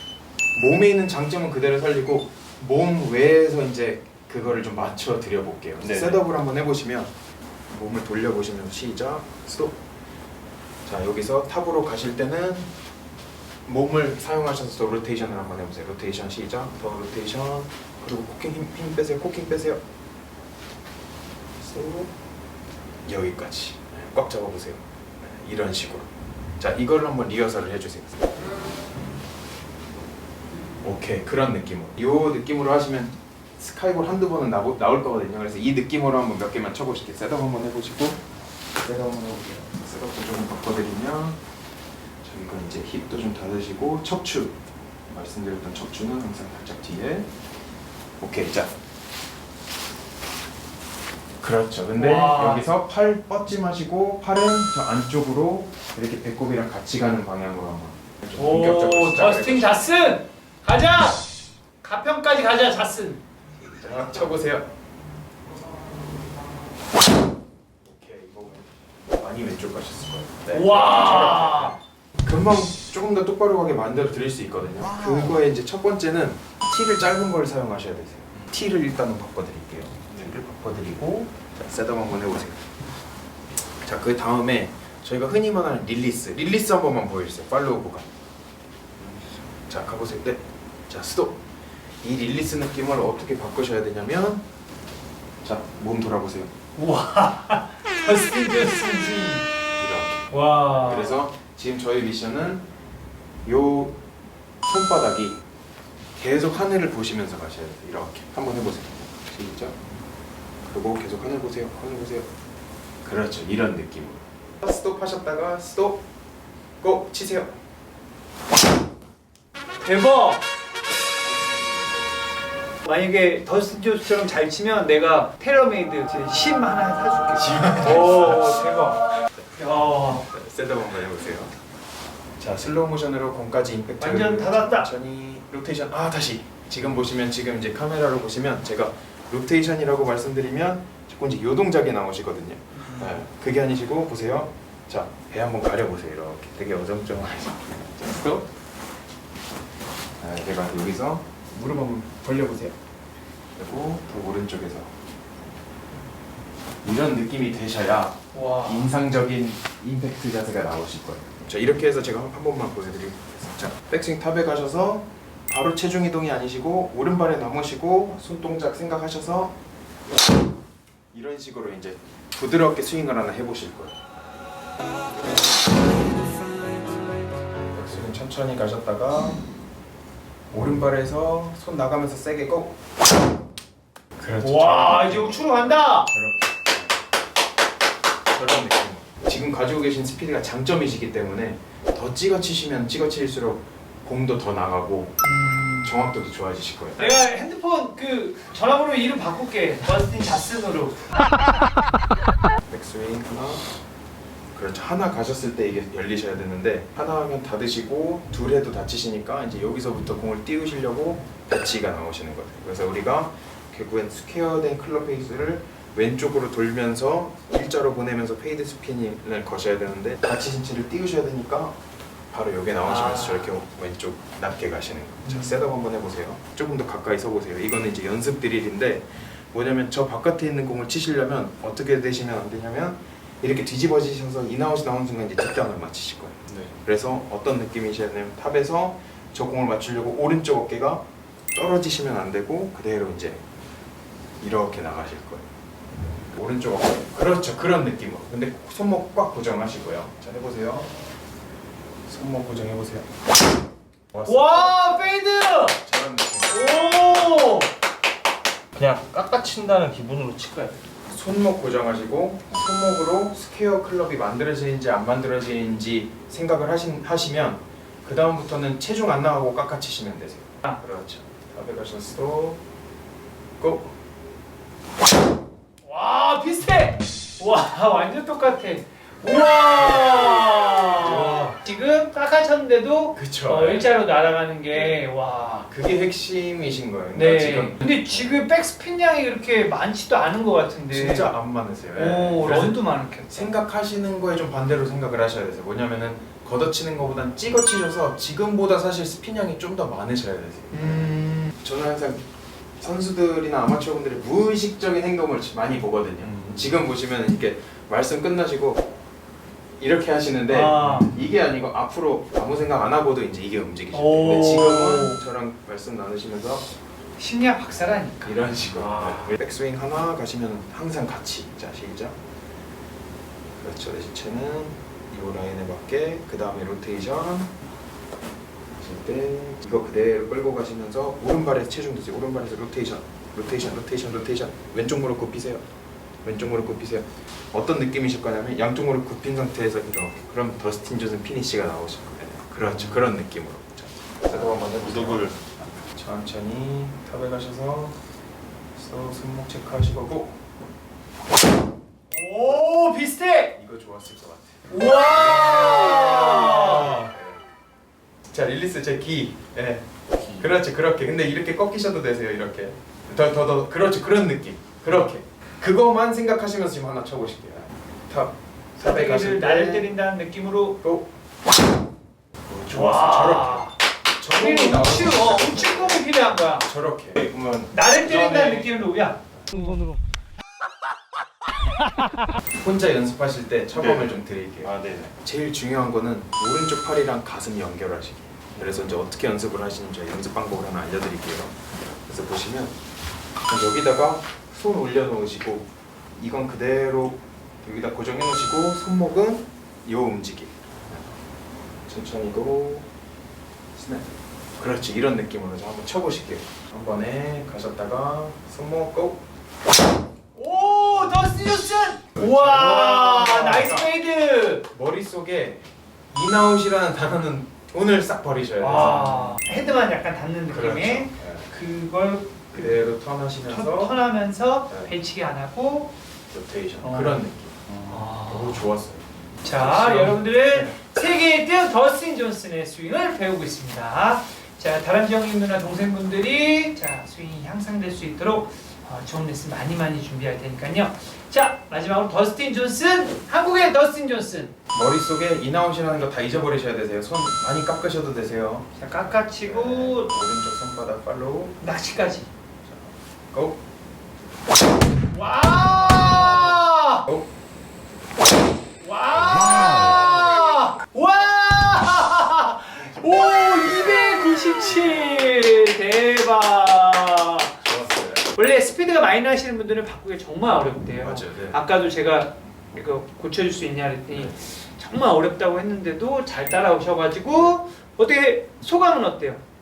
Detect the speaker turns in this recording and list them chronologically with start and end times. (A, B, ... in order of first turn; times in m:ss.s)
0:00.6-0:07.1 A
0:05.8-0:06.2 B
0:07.7-0:09.8 A
0:10.8-0:12.7 A
0:13.7-0:19.8 A
0:21.6-0:22.1 A
0:23.0-0:28.3 A
0:30.8-0:38.2 A
0:38.8-0:41.4 A
0:42.2-0:44.6 A
0:45.1-0:47.3 A
0:48.2-0:48.7 A
0:51.4-0:59.8 A
0:52.0-0:52.7 C
0:58.3-1:01.3 C
1:01.8-1:03.2 C
1:03.7-1:04.7 A
1:07.8-1:22.7 A
1:10.5-1:11.8 C
1:23.8-1:28.1 A
1:29.7-1:31.4 A
1:32.0-1:34.4 A
1:35.4-1:36.5 A
1:36.8-1:39.5 C
1:39.8-1:42.6 A
1:40.3-1:41.2 C
1:43.5-1:44.0 A
1:44.6-1:45.4 A
1:46.2-1:49.8 A
1:50.7-1:52.3 A
1:53.0-1:56.0 A
1:56.8-1:57.6 A
1:59.8-2:00.5 C
2:02.8-2:10.3 C
2:07.4-2:08.5 A
2:10.1-2:11.5 A
2:12.4-2:28.5 A
2:14.0-2:14.9 C
2:22.8-2:23.2 C
2:30.2-2:32.8 A
2:33.6-2:34.9 A
2:36.8-2:49.6 A
2:38.3-2:38.9 C
2:51.1-2:54.0 A
2:57.7-2:59.4 A
3:00.5-3:02.8 A
3:04.2-3:07.0 A
3:04.4-3:06.1 C
3:08.3-3:15.2 A
3:15.2-3:16.0 C
3:15.8-3:17.2 A
3:17.0-3:21.2 C
3:22.7-3:23.7 A
3:24.5-3:41.8 A
3:42.3-4:03.4 A
3:42.8-3:43.5 C
3:45.3-3:45.6 C
4:04.4-4:05.5 A
4:06.3-4:10.9 A
4:12.1-4:13.1 A
4:14.1-4:14.7 A
4:14.2-4:15.8 C
4:15.7-4:17.3 A
4:16.5-4:17.7 C
4:18.8-4:20.8 B
4:21.1-4:32.6 A
4:33.6-4:34.0 A
4:35.8-4:45.7 C
4:41.0-4:41.6 A
4:43.1-4:44.0 A
4:44.7-4:45.0 A
4:45.7-4:48.4 A
4:47.1-4:51.3 C
4:50.9-5:02.2 A
4:52.0-4:53.5 C
5:00.7-5:01.5 C
5:02.8-5:08.9 A
5:06.2-5:06.5 B
5:09.8-5:16.7 A
5:10.5-5:11.1 C
5:13.9-5:15.2 C
5:17.2-5:18.4 C
5:18.1-5:22.2 A
5:23.6-5:27.5 A
5:28.8-5:35.6 A
5:36.2-5:45.4 A
5:44.3-5:45.4 B
5:45.9-5:48.0 A
5:48.8-5:50.4 A
5:52.1-5:53.6 C
5:53.5-5:57.4 A
5:54.7-5:57.1 C
5:58.3-6:09.9 A
6:08.8-6:10.8 C
6:10.8-6:11.1 A
6:12.5-6:18.8 A
6:12.7-6:13.8 C
6:14.3-6:16.7 C
6:17.7-6:19.2 C
6:21.8-6:22.1 C
6:22.6-6:32.8 A
6:23.8-6:24.1 B
6:24.6-6:25.1 B
6:33.4-6:41.1 A
6:41.9-6:42.9 A
6:43.7-6:49.2 A
6:50.4-6:54.7 C
6:52.2-6:53.9 A
6:54.7-6:59.4 A
6:58.6-7:02.8 C
7:00.5-7:01.5 A
7:02.5-7:04.0 A
7:03.5-7:05.9 C
7:06.3-7:10.8 A
7:06.8-7:07.2 C
7:07.8-7:08.6 C
7:09.4-7:24.5 C
7:24.7-7:28.7 A
7:28.8-7:30.1 C
7:29.3-7:31.6 A
7:31.6-7:32.3 C
7:32.6-7:33.6 A
7:35.1-7:37.0 C
7:38.8-7:47.6 C
7:47.6-7:48.3 A
7:48.3-7:59.4 C
7:51.0-7:51.6 A
7:54.1-7:54.4 A